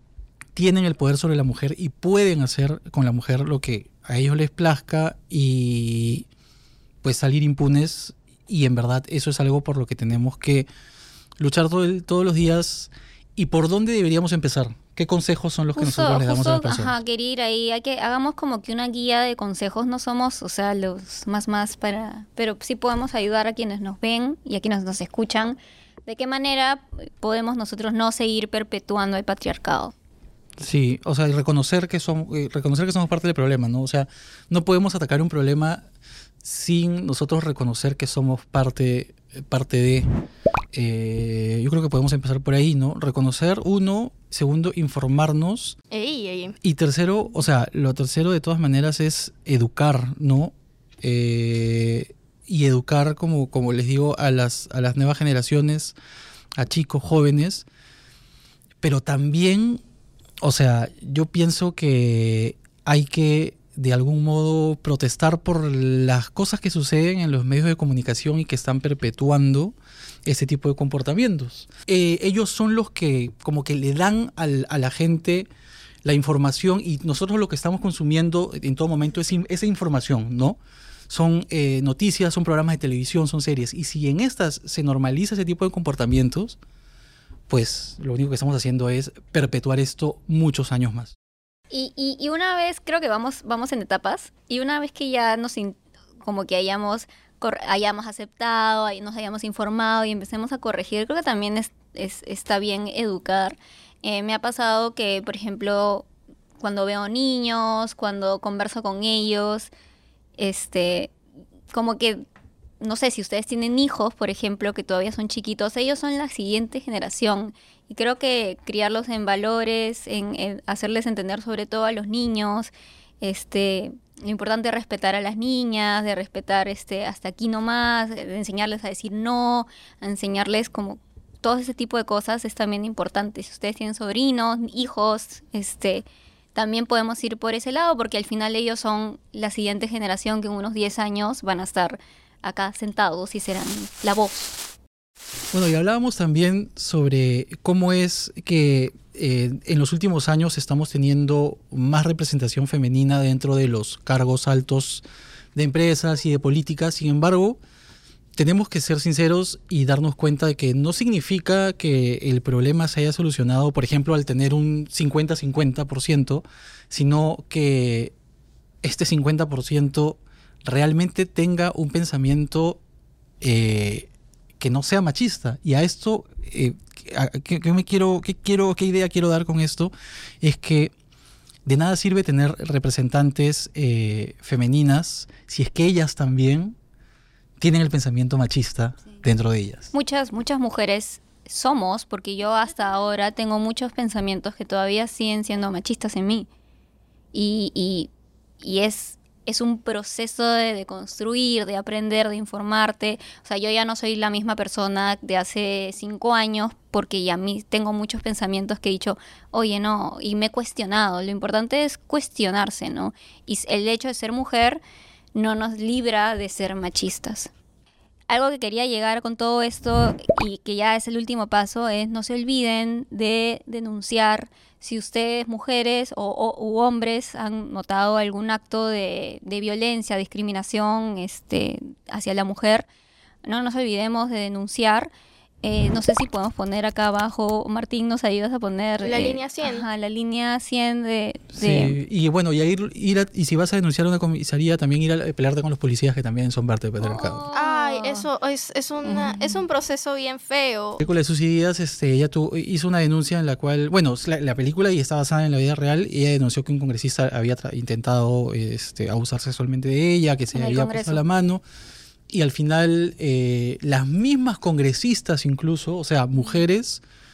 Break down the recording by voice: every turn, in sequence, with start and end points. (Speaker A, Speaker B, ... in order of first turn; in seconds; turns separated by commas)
Speaker A: 0.6-6.3, Speaker A: 7.0-10.7, Speaker A: 11.4-17.0, Speaker B: 15.8-29.9, Speaker A: 30.6-35.8, Speaker A: 36.4-40.1, Speaker A: 40.7-45.8, Speaker C: 45.9-46.6, Speaker A: 46.6-56.0, Speaker A: 56.6-57.7, Speaker A: 58.8-59.8, Speaker A: 60.4-69.8, Speaker A: 70.3-75.5, Speaker A: 76.0-86.6, Speaker A: 87.5-91.1, Speaker B: 91.7-106.1, Speaker B: 106.6-109.7, Speaker B: 110.4-111.1, Speaker B: 111.7-112.2, Speaker B: 112.8-144.6, Speaker A: 145.5-155.0, Speaker A: 155.6-157.6, Speaker A: 158.4-168.1, Speaker A: 168.8-172.8, Speaker A: 173.4-180.9, Speaker A: 181.7-186.8, Speaker A: 187.6-189.9, Speaker B: 189.9-196.5, Speaker B: 197.3-214.8, Speaker B: 215.3-217.5, Speaker B: 218.3-232.9, Speaker B: 233.5-235.1, Speaker B: 235.6-242.0, Speaker C: 239.0-239.9, Speaker A: 241.6-247.4, Speaker B: 247.0-248.3, Speaker C: 247.5-251.0, Speaker B: 249.0-249.6, Speaker A: 251.0-261.6, Speaker B: 260.5-261.2, Speaker A: 262.3-267.0